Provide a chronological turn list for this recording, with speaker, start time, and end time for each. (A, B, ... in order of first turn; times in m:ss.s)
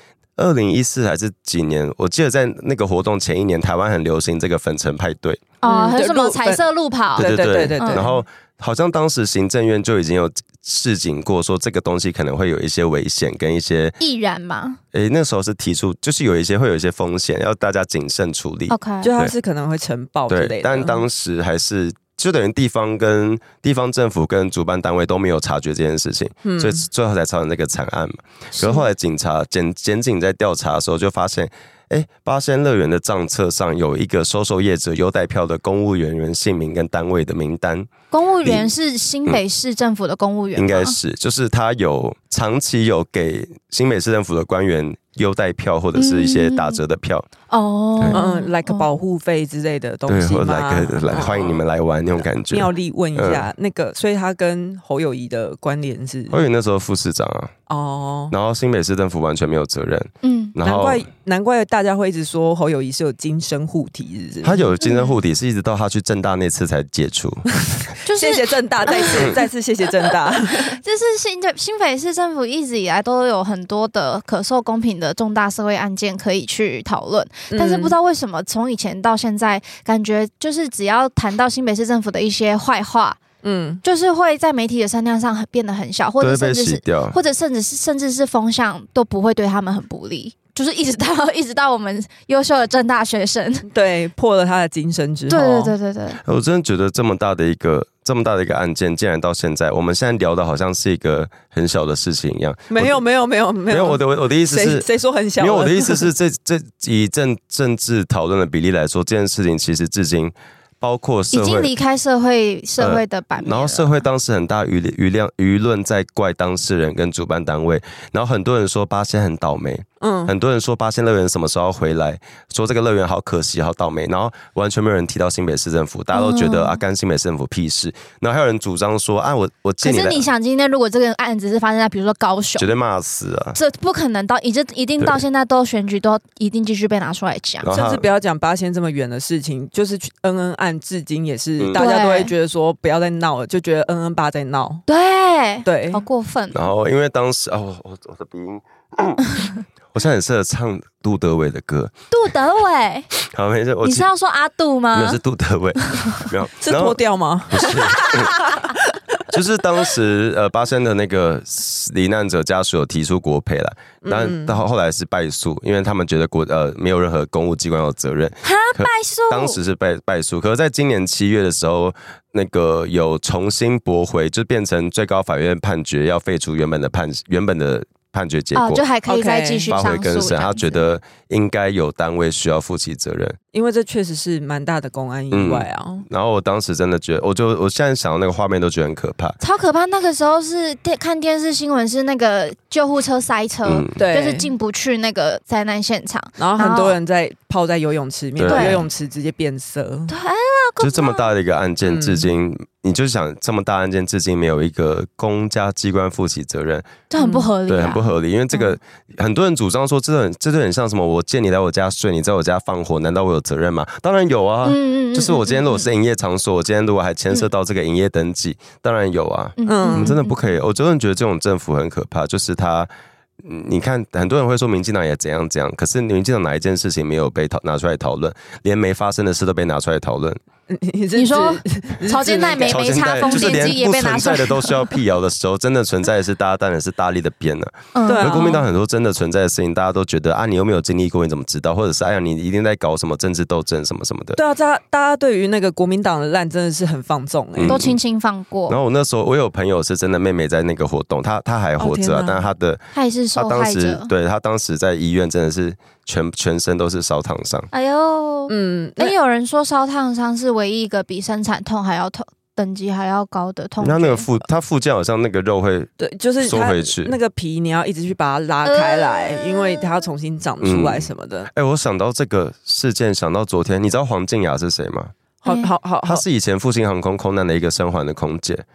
0:00.4-0:05.5 A
0:05.6-0:08.2 B
0:05.6-0:08.1 C
0:07.2-0:14.0 A
0:14.0-0:14.8 C
0:14.9-0:19.4 A
0:18.7-0:19.1 C
0:19.0-0:21.0 B
0:20.3-0:37.9 A
0:26.4-0:26.8 B
0:28.5-0:28.9 C
0:38.1-0:41.0 C
0:38.4-0:38.7 A
0:40.6-0:47.3 A
0:46.0-0:46.8 C
0:47.5-0:48.9 C
0:48.1-0:51.6 B
0:50.1-0:53.5 A
0:52.5-0:56.4 B
0:56.3-0:57.5 A
0:57.7-0:58.3 B
0:58.3-1:01.1 A
1:00.2-1:00.6 C
1:00.6-1:04.6 B
1:04.4-1:07.5 A
1:04.8-1:05.2 C
1:07.7-1:10.8 B
1:08.1-1:09.4 C
1:10.5-1:23.2 C
1:17.5-1:18.0 B
1:23.4-1:23.8 B
1:23.8-1:33.7 C
1:26.2-1:27.2 A
1:33.7-1:35.7 B
1:35.3-1:36.2 C
1:36.2-1:43.0 A
1:42.7-1:46.1 B
1:43.7-1:44.9 A
1:45.4-1:51.7 A
1:51.3-1:53.9 C
1:52.8-2:10.3 A
2:00.0-2:00.3 B
2:06.1-2:06.8 C
2:09.8-2:12.7 C
2:12.6-2:13.6 A
2:13.5-2:17.7 C
2:17.6-2:18.1 A
2:17.7-2:24.8 B
2:21.8-2:22.3 C
2:24.9-2:26.6 C
2:25.6-2:26.0 B
2:26.5-2:29.3 A
2:29.9-2:31.9 A
2:32.1-2:33.1 C
2:33.2-2:34.1 A
2:33.8-2:35.2 C
2:34.9-2:38.4 A
2:36.6-2:39.0 B
2:39.3-2:58.8 A
2:44.0-2:44.6 B
2:48.4-2:49.6 C
2:58.6-3:00.7 C
2:59.1-2:59.7 B
2:59.7-3:03.4 A
3:03.5-3:06.1 B
3:05.3-3:09.4 A
3:09.4-3:17.0 C
3:13.7-3:14.0 A
3:14.0-3:14.5 B
3:16.4-3:20.1 B
3:18.4-3:18.8 A
3:18.5-3:18.9 C
3:20.1-3:21.3 C
3:20.8-3:27.0 A
3:21.9-3:22.3 B
3:27.1-3:28.8 C
3:27.2-3:27.5 B
3:27.7-3:42.9 A
3:34.6-3:35.8 C
3:39.6-3:40.4 C
3:39.7-3:40.2 B
3:43.4-3:50.4 A
3:50.7-3:53.8 B
3:51.2-3:54.9 C
3:52.6-4:04.4 A
3:57.9-3:58.5 C
3:58.1-3:58.7 B
4:04.4-4:07.8 B
4:07.6-4:08.0 A
4:07.6-4:08.8 C
4:08.7-4:12.8 A
4:11.8-4:12.5 B
4:12.9-4:14.1 C
4:13.4-4:17.7 A
4:17.7-4:24.3 C
4:18.5-4:19.2 B
4:23.8-4:27.2 A
4:26.0-4:31.5 B
4:28.6-4:29.8 C
4:30.6-4:35.1 A
4:35.4-4:36.2 B
4:36.0-4:38.6 A